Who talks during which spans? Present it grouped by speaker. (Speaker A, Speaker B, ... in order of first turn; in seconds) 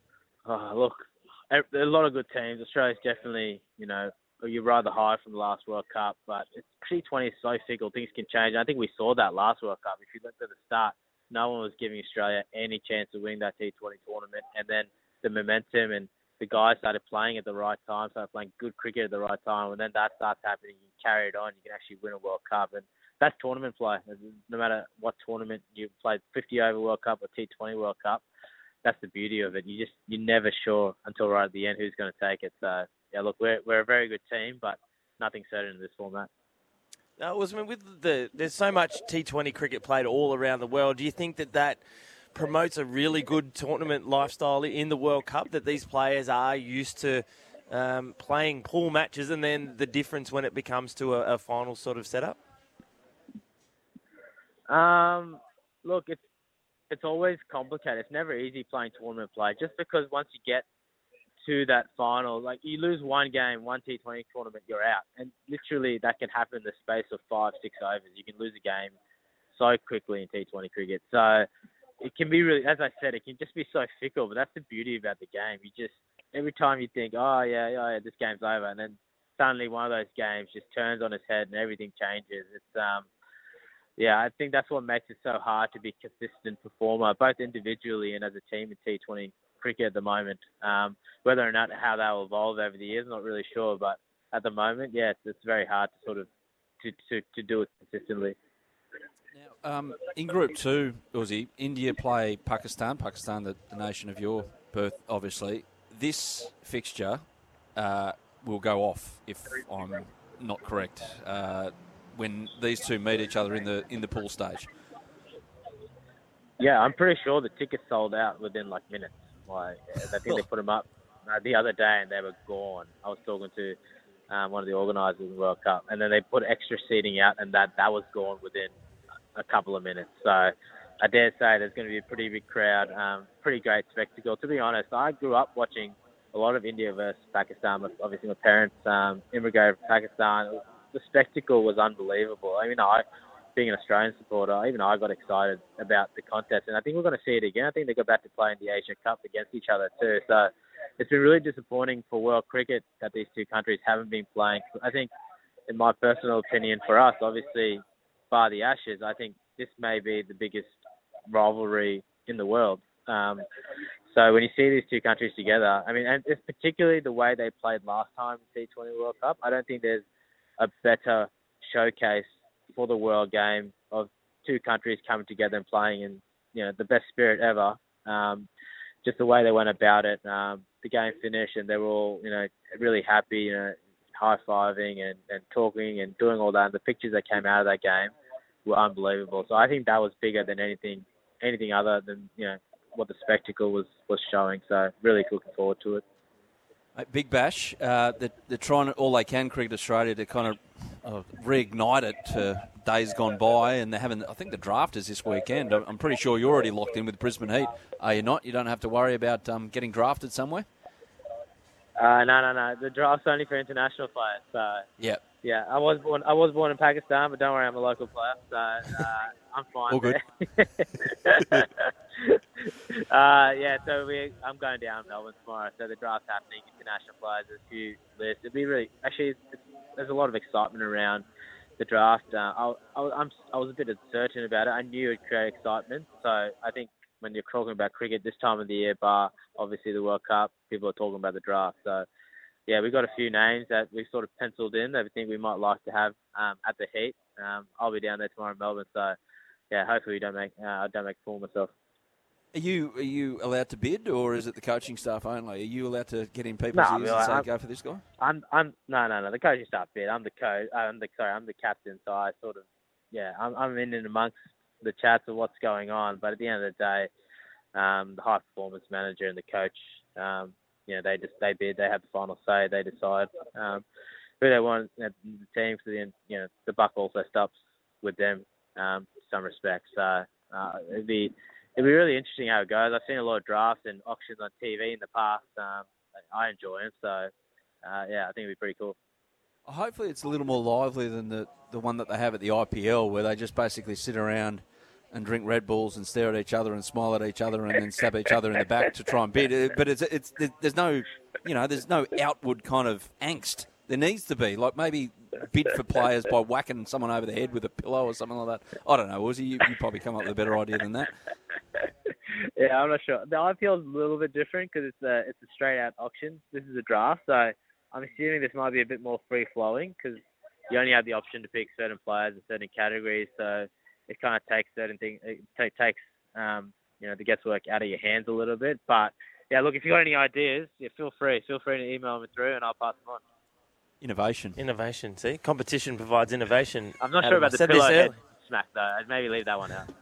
Speaker A: 0.5-28.2, 28.8-36.3, 54.7-56.2, 56.9-60.6, 61.4-68.9, 69.5-71.5, 72.0-83.1, 84.0-96.3, 96.8-98.3, 116.6-123.8, 124.3-128.7, 129.3-143.0, 143.6-155.1, 155.7-160.7, 161.3-163.4, 164.1-170.0, 170.6-178.5, 179.0-188.1, 188.7-196.0, 212.0-214.8, 215.4-231.2, 231.8-242.1, 242.7-249.2, 249.7-251.7, 256.7-257.5, 258.2-267.1, 267.7-273.8, 274.4-287.3, 287.8-288.9, 312.6-333.2, 337.0-339.9
Speaker B: 37.2-41.8, 42.3-52.4, 334.6-338.1
Speaker C: 99.3-107.2, 107.8-114.7, 196.9-210.7, 219.9-220.2, 252.5-258.0, 289.6-311.1, 334.0-334.6